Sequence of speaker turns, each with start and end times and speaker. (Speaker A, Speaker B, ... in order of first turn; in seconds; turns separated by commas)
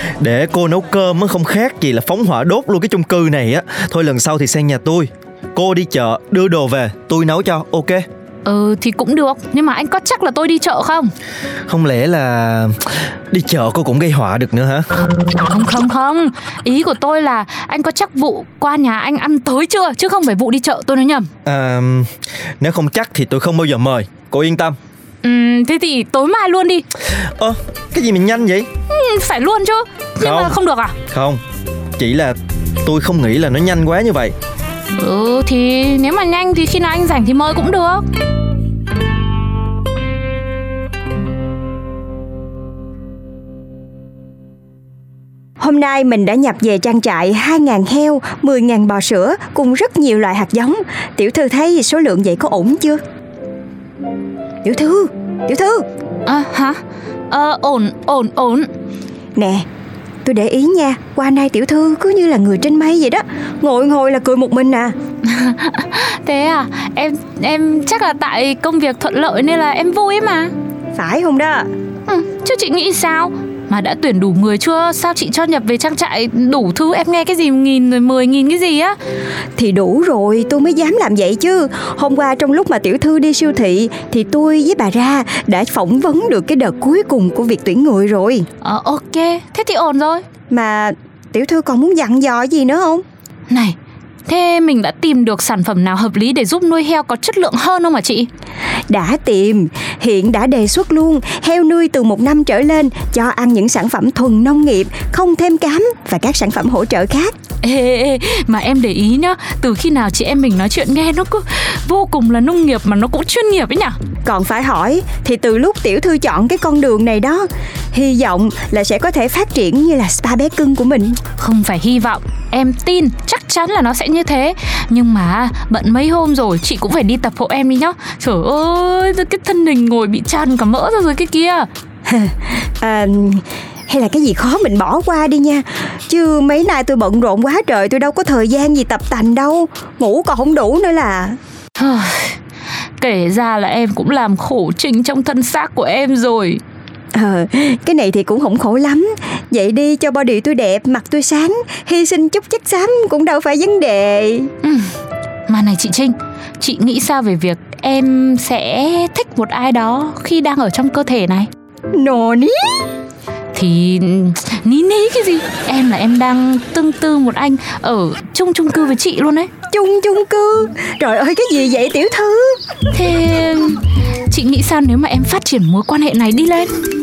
Speaker A: 0.2-8.0, Speaker B: 8.4-11.1, Speaker A: 11.7-12.8, Speaker A: 13.3-14.9, Speaker B: 15.3-21.3, Speaker A: 21.4-24.8, Speaker B: 25.2-26.8, Speaker A: 27.4-28.7, Speaker B: 28.9-30.9, Speaker A: 30.2-30.6, Speaker A: 31.1-31.4, Speaker A: 32.0-34.3, Speaker B: 35.0-38.0, Speaker C: 45.6-53.0, Speaker C: 54.6-55.9, Speaker B: 56.3-56.8, Speaker B: 57.3-58.7, Speaker C: 59.4-59.6, Speaker C: 60.2-64.9, Speaker B: 65.2-70.5, Speaker C: 71.0-71.7, Speaker B: 72.1-79.0, Speaker C: 79.6-88.5, Speaker B: 88.6-90.2, Speaker C: 90.5-93.0, Speaker B: 93.5-93.8, Speaker B: 94.3-98.3, Speaker C: 98.9-107.3, Speaker B: 107.6-114.0, Speaker C: 114.3-121.2, Speaker B: 121.4-131.7, Speaker C: 132.1-141.4, Speaker B: 141.8-142.3, Speaker B: 143.0-146.6, Speaker C: 147.1-154.5, Speaker B: 154.6-154.9, Speaker B: 155.5-161.5, Speaker C: 161.9-162.9, Speaker B: 163.5-169.5, Speaker C: 169.7-172.6, Speaker B: 172.9-173.8, Speaker B: 174.3-176.7